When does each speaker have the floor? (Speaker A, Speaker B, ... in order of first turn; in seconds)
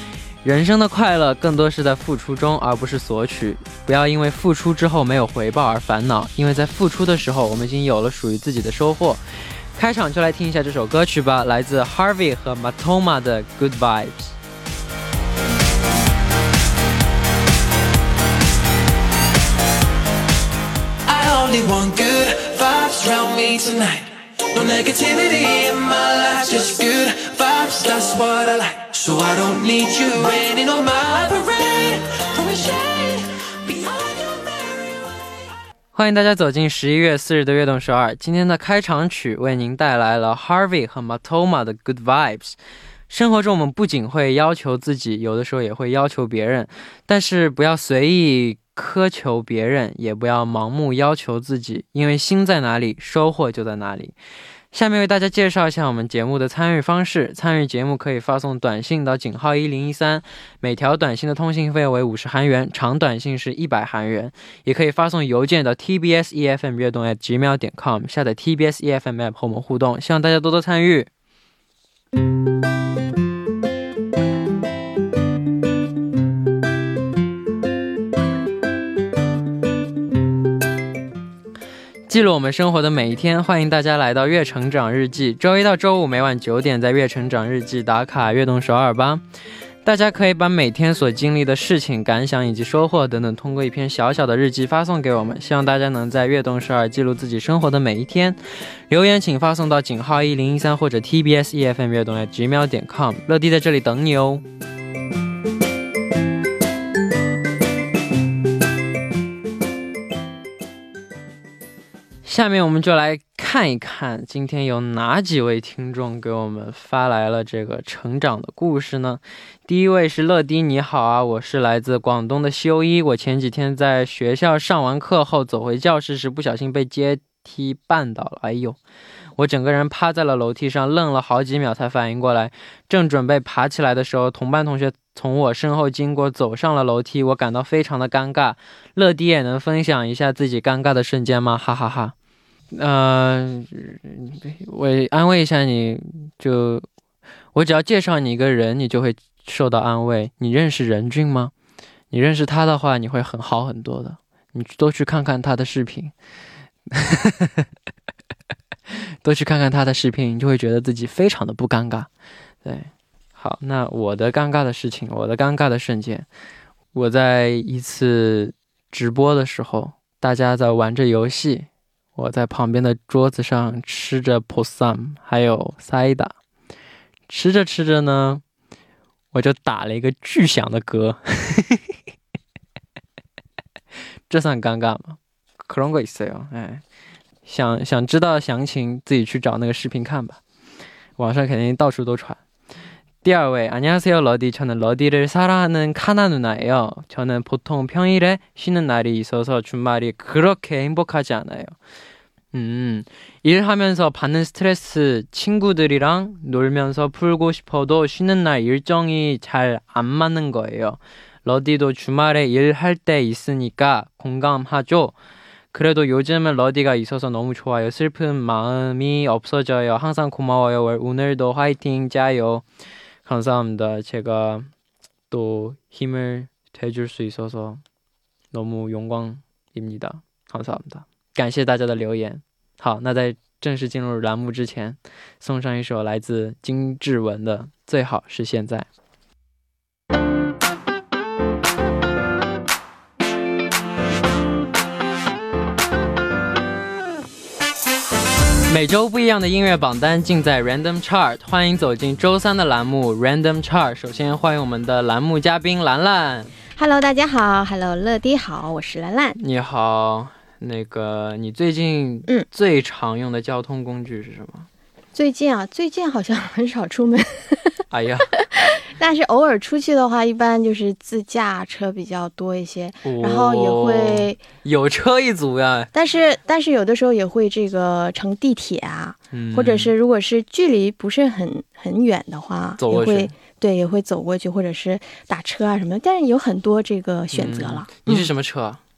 Speaker A: 0.4-9.2, 9.8-14.3, 36.0-42.6, 43.1-54.2, 54.7-71.1, 82.1-89.2, 89.8-104.4, 112.2-128.8, 129.4-142.2, 142.7-146.9, 147.5-151.5, 152.1-156.1, 156.9-157.7, 159.2-162.1, 162.6-166.3, 166.9-176.3, 177.3-178.4, 179.3-181.9, 184.3-186.8, 187.5-190.4, 191.2-192.4, 193.2-201.8, 202.5-215.2, 215.7-222.7, 223.2-224.7, 225.3-227.8, 228.5-238.9, 248.7-256.5, 259.4-264.7, 267.9-268.3, 273.1-275.9, 279.3-279.9, 282.8-283.3, 287.3-288.8
Speaker B: 21.1-35.1
Speaker C: 256.8-259.4, 265.1-267.8, 268.5-274.4, 275.9-288.3